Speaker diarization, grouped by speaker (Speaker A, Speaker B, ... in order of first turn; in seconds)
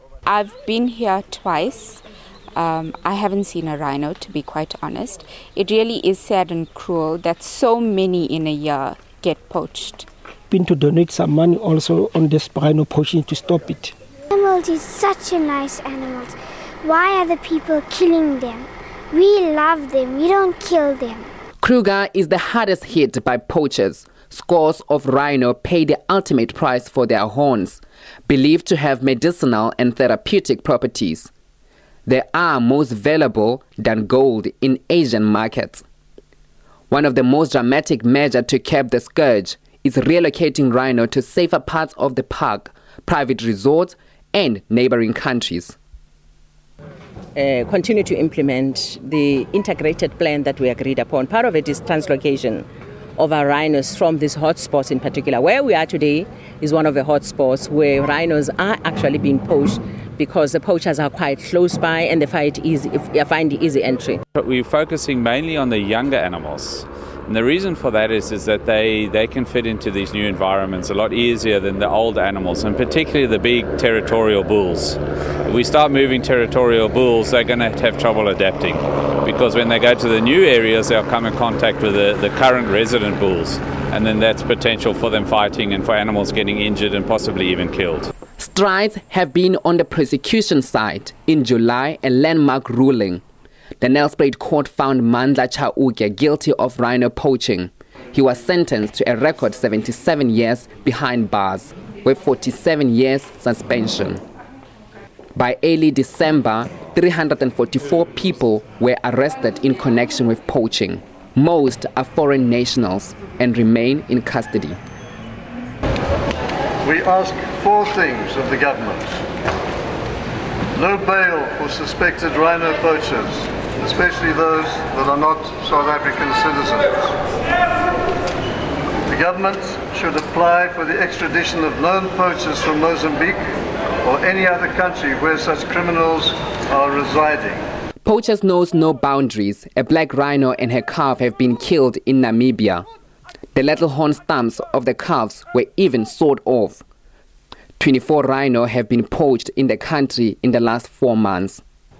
Speaker A: 0.2-2.0, 2.5-10.1
Speaker B: 10.5-13.9
Speaker C: 14.3-21.3
Speaker D: 21.6-31.3, 32.1-35.8, 36.9-45.8, 88.4-93.2, 93.8-104.2, 105.3-114.8, 138.0-142.8, 143.5-146.8, 147.8-151.6
Speaker E: 47.3-52.6, 53.2-64.2
Speaker F: 64.3-88.1
Speaker G: 116.8-119.2, 120.7-127.1, 129.1-133.4, 134.0-137.6